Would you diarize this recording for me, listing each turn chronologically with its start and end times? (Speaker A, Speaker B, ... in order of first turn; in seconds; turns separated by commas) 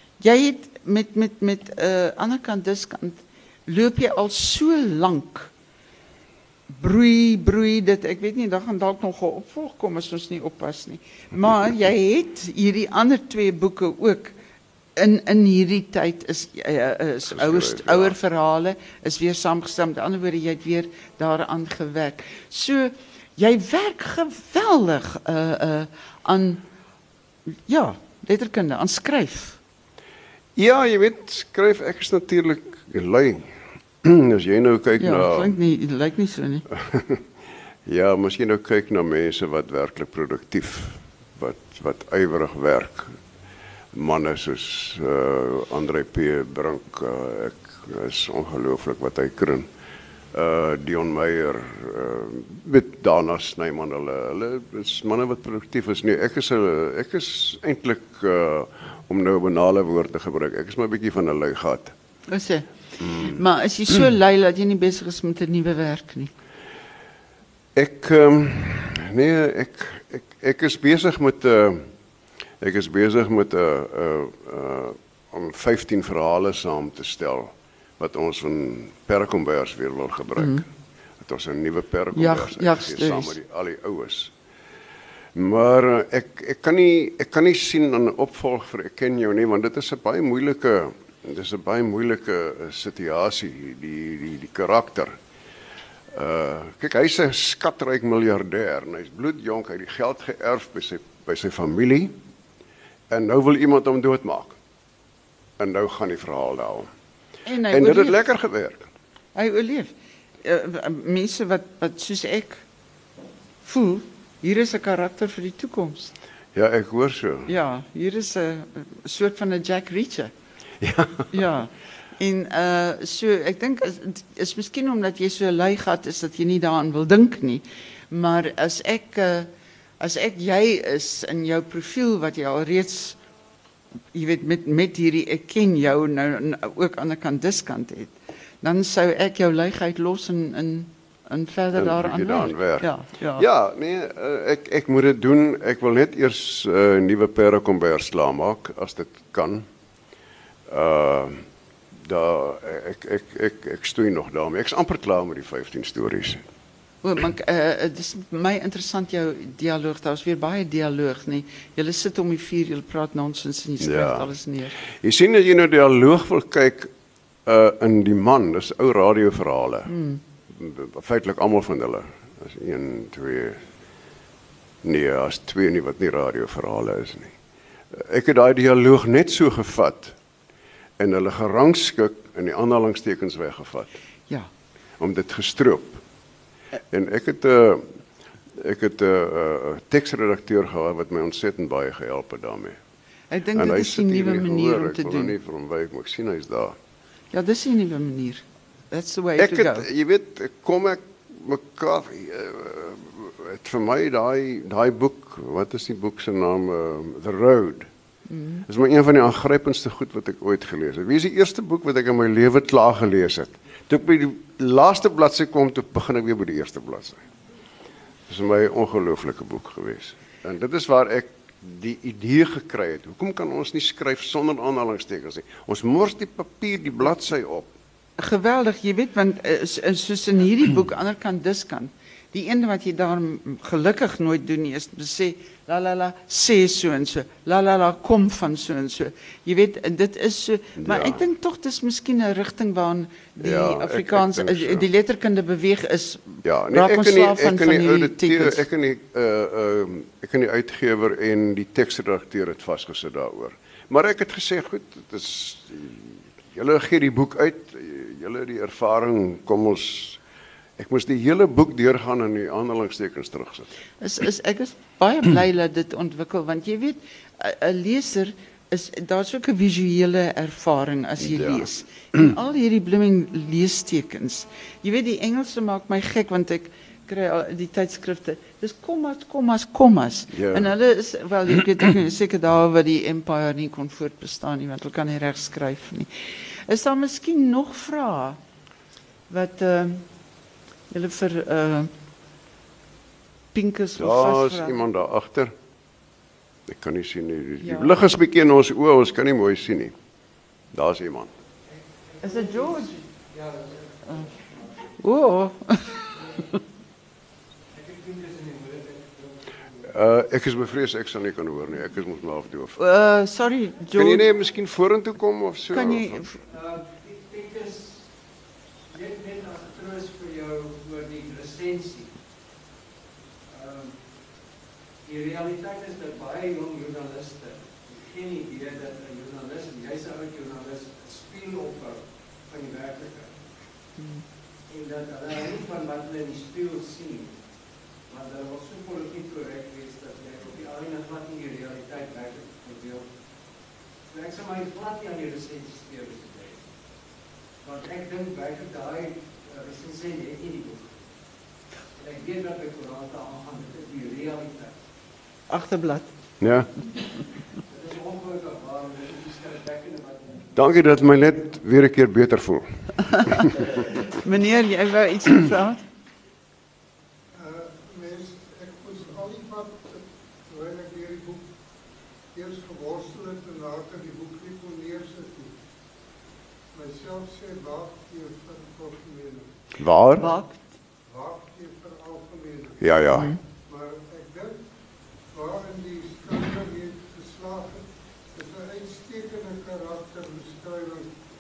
Speaker A: 0.2-5.5, Speaker A: 6.7-14.3, Speaker A: 15.0-26.6, Speaker B: 17.3-18.1, Speaker A: 27.6-29.6, Speaker B: 30.6-35.5, Speaker A: 35.0-36.6, Speaker B: 36.7-37.2, Speaker B: 37.9-43.2, Speaker B: 43.9-49.7, Speaker B: 50.3-61.9, Speaker A: 62.3-66.3, Speaker B: 63.0-63.4, Speaker B: 67.8-71.9, Speaker B: 72.6-80.7, Speaker A: 80.4-80.6, Speaker B: 81.2-84.3, Speaker A: 82.1-83.3, Speaker B: 85.3-95.2, Speaker B: 96.1-102.1, Speaker B: 103.1-104.6, Speaker B: 105.6-106.9, Speaker A: 107.5-108.2, Speaker B: 107.7-108.8, Speaker A: 109.3-109.9, Speaker A: 110.4-112.6, Speaker A: 113.6-116.1, Speaker B: 116.5-117.5, Speaker A: 117.5-120.3, Speaker B: 120.8-121.3, Speaker A: 121.3-133.2, Speaker A: 134.1-143.4, Speaker B: 141.7-149.7, Speaker B: 150.7-156.4, Speaker A: 157.0-164.7, Speaker B: 163.8-164.3, Speaker B: 164.9-166.9, Speaker B: 167.4-169.9, Speaker A: 169.9-170.2, Speaker B: 170.5-173.6, Speaker B: 174.8-177.3, Speaker B: 177.9-180.2, Speaker B: 181.0-183.9, Speaker B: 185.0-186.0, Speaker B: 186.9-187.9, Speaker B: 188.5-192.8, Speaker A: 193.3-195.3, Speaker B: 193.5-196.8, Speaker A: 197.3-199.8, Speaker B: 199.4-207.9, Speaker A: 208.3-208.6, Speaker B: 208.7-217.2, Speaker B: 218.3-227.7, Speaker A: 228.2-248.6, Speaker B: 240.8-241.2, Speaker B: 243.4-244.8, Speaker B: 246.4-260.2, Speaker B: 260.8-263.7, Speaker A: 264.0-288.4, Speaker B: 271.2-271.6, Speaker B: 280.3-280.7, Speaker A: 289.3-290.0, Speaker A: 290.9-291.9, Speaker A: 293.5-294.8, Speaker B: 294.0-295.5, Speaker B: 296.7-299.9, Speaker A: 297.6-297.9, Speaker B: 300.7-301.3, Speaker C: 301.7-304.9, Speaker A: 302.2-302.9, Speaker A: 305.0-306.5, Speaker C: 306.1-306.4, Speaker C: 307.7-309.9, Speaker B: 309.9-312.8, Speaker A: 312.8-314.2, Speaker B: 313.9-316.2, Speaker A: 315.7-316.4, Speaker C: 316.5-318.1, Speaker C: 318.9-322.1, Speaker C: 323.5-324.0, Speaker C: 325.0-333.4, Speaker C: 334.7-337.4, Speaker C: 338.1-343.1, Speaker C: 344.1-346.6, Speaker C: 347.6-351.1, Speaker C: 351.9-354.8, Speaker A: 355.5-356.1, Speaker B: 356.4-356.7, Speaker C: 357.7-360.6, Speaker B: 360.5-363.7, Speaker A: 363.1-365.8, Speaker D: 367.3-371.4, Speaker D: 372.3-375.5, Speaker D: 376.7-379.5, Speaker B: 379.8-380.3, Speaker A: 380.2-380.7, Speaker D: 381.1-382.8, Speaker B: 382.8-383.3, Speaker A: 383.1-383.4, Speaker D: 383.7-384.6, Speaker D: 385.3-391.1